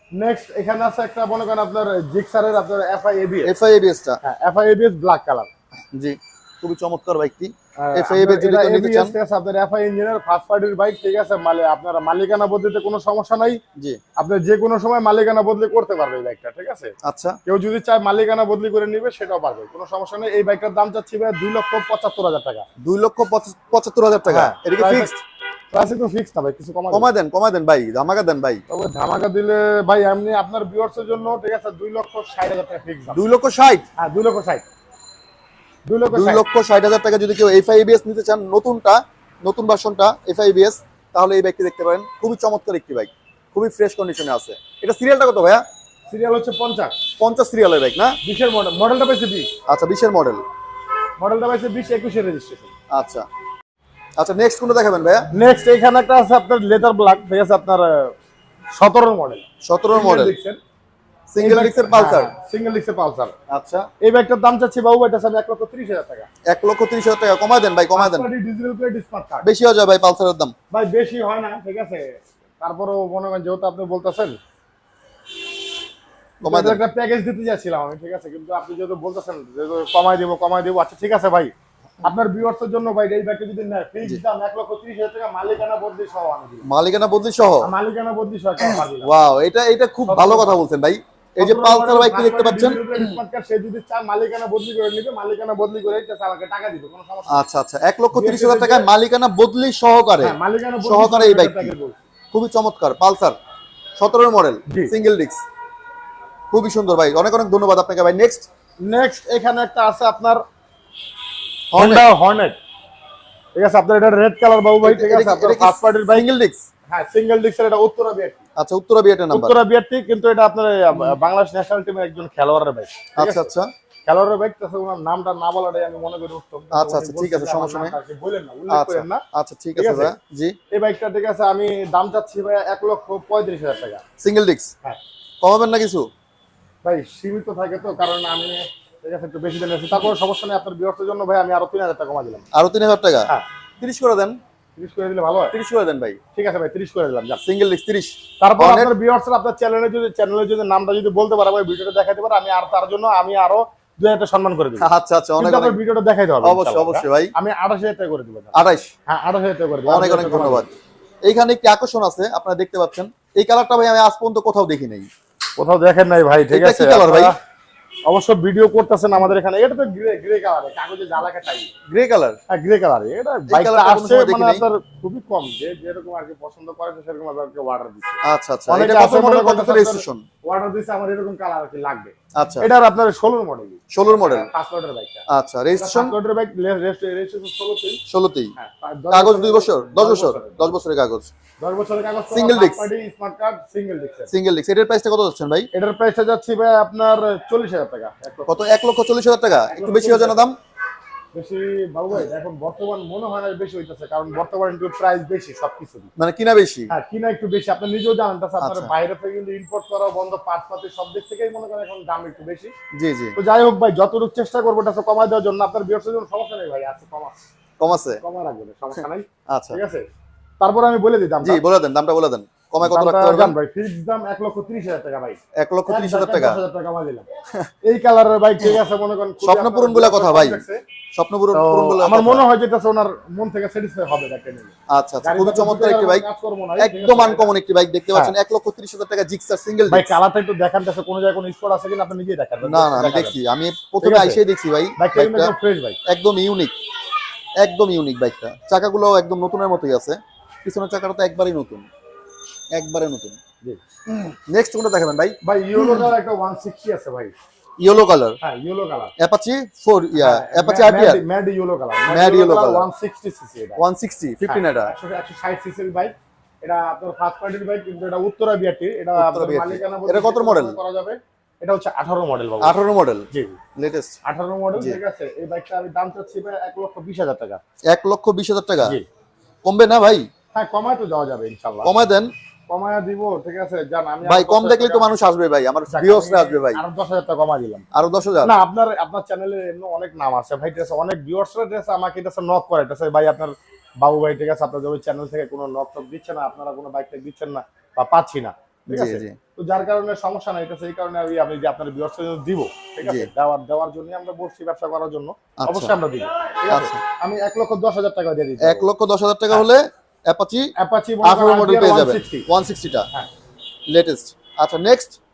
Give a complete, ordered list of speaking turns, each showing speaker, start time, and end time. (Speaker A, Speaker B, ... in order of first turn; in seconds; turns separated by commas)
Speaker A: 0.1-3.5, Speaker B: 3.4-4.2, Speaker A: 4.2-5.5, Speaker B: 5.9-9.1, Speaker A: 7.8-13.6, Speaker A: 14.2-16.9, Speaker B: 17.0-17.4, Speaker A: 17.4-22.7, Speaker B: 22.8-25.1, Speaker A: 24.3-25.2, Speaker A: 25.7-27.1, Speaker B: 26.9-28.6, Speaker A: 28.7-33.2, Speaker B: 33.1-33.9, Speaker A: 34.0-34.7, Speaker A: 35.9-36.4, Speaker B: 36.1-45.6, Speaker A: 46.1-47.0, Speaker B: 47.2-48.2, Speaker A: 48.2-49.5, Speaker B: 49.7-50.4, Speaker A: 51.2-52.7, Speaker B: 52.9-53.2, Speaker B: 54.2-55.3, Speaker A: 55.3-58.1, Speaker A: 58.7-60.6, Speaker B: 59.6-60.3, Speaker B: 61.3-62.3, Speaker A: 61.4-63.3, Speaker B: 63.5-63.9, Speaker A: 64.0-66.3, Speaker B: 66.5-68.3, Speaker A: 67.9-69.5, Speaker B: 69.4-70.5, Speaker A: 70.7-74.4, Speaker B: 76.4-76.8, Speaker A: 76.4-86.6, Speaker B: 86.6-87.7, Speaker A: 87.6-89.1, Speaker B: 88.6-93.2, Speaker A: 90.0-90.6, Speaker A: 91.4-97.5, Speaker B: 97.3-101.7, Speaker A: 98.1-98.9, Speaker A: 100.2-102.0, Speaker B: 102.3-103.4, Speaker B: 104.0-105.4, Speaker A: 104.7-104.9, Speaker B: 106.5-108.5, Speaker A: 108.8-110.4, Speaker B: 111.7-112.1, Speaker A: 111.7-112.6, Speaker A: 113.5-116.2, Speaker B: 114.8-116.6, Speaker A: 116.9-118.4, Speaker B: 118.6-119.5, Speaker A: 119.3-123.5, Speaker B: 123.2-123.7, Speaker A: 124.0-129.2, Speaker B: 126.7-128.0, Speaker B: 128.7-130.6, Speaker A: 129.8-130.1, Speaker A: 130.7-134.0, Speaker B: 134.2-134.7, Speaker B: 135.4-136.1, Speaker A: 136.8-142.4, Speaker B: 142.5-144.4, Speaker A: 144.8-145.5, Speaker B: 145.5-146.2, Speaker A: 146.3-147.4, Speaker B: 147.4-148.9, Speaker A: 148.4-154.9, Speaker B: 154.8-155.8, Speaker A: 155.4-160.7, Speaker B: 156.4-157.3, Speaker B: 158.5-158.9, Speaker B: 159.9-160.7, Speaker B: 161.2-165.1, Speaker A: 165.6-167.3, Speaker B: 166.5-167.3, Speaker A: 168.1-171.7, Speaker B: 171.9-172.4, Speaker A: 172.5-185.2, Speaker B: 173.5-174.6, Speaker B: 178.2-180.2, Speaker B: 182.3-182.7, Speaker B: 183.9-184.5, Speaker B: 185.3-186.1, Speaker A: 185.8-188.0, Speaker B: 188.1-188.5, Speaker A: 188.6-190.8, Speaker B: 189.1-191.3, Speaker A: 191.6-194.3, Speaker B: 192.3-192.9, Speaker B: 194.3-195.7, Speaker A: 195.7-198.6, Speaker B: 198.5-200.6, Speaker A: 199.7-200.4, Speaker A: 201.3-206.1, Speaker B: 206.2-206.9, Speaker A: 206.9-212.7, Speaker B: 208.6-208.9, Speaker B: 212.9-213.4, Speaker A: 213.3-217.4, Speaker B: 217.8-218.2, Speaker A: 218.2-220.0, Speaker B: 219.5-219.8, Speaker A: 220.6-221.6, Speaker B: 221.4-223.6, Speaker A: 222.8-227.3, Speaker B: 225.6-226.6, Speaker A: 227.8-230.8, Speaker B: 229.4-232.4, Speaker A: 231.5-237.5, Speaker B: 234.9-236.2, Speaker B: 236.8-240.1, Speaker A: 239.9-243.3, Speaker B: 242.6-245.5, Speaker A: 244.0-244.4, Speaker A: 245.0-246.0, Speaker B: 246.0-246.7, Speaker B: 247.6-251.9, Speaker B: 252.7-253.4, Speaker B: 254.1-256.1, Speaker A: 255.4-257.3, Speaker B: 257.8-258.4, Speaker A: 258.4-259.1, Speaker B: 259.2-261.2, Speaker A: 260.2-263.8, Speaker B: 262.1-262.9, Speaker B: 263.8-264.9, Speaker A: 264.4-272.7, Speaker B: 269.1-270.8, Speaker B: 272.6-274.2, Speaker A: 273.3-273.6, Speaker A: 274.2-277.6, Speaker B: 277.9-279.0, Speaker B: 279.6-280.3, Speaker A: 280.5-281.9, Speaker B: 281.8-282.3, Speaker A: 282.7-285.1, Speaker B: 284.2-286.8, Speaker A: 285.9-287.9, Speaker B: 287.9-288.6, Speaker A: 288.4-308.9, Speaker B: 298.9-299.4, Speaker B: 303.0-303.3, Speaker B: 305.6-305.9, Speaker B: 306.7-307.0, Speaker B: 308.6-310.7, Speaker A: 310.8-312.5, Speaker B: 311.2-313.1, Speaker B: 313.9-315.2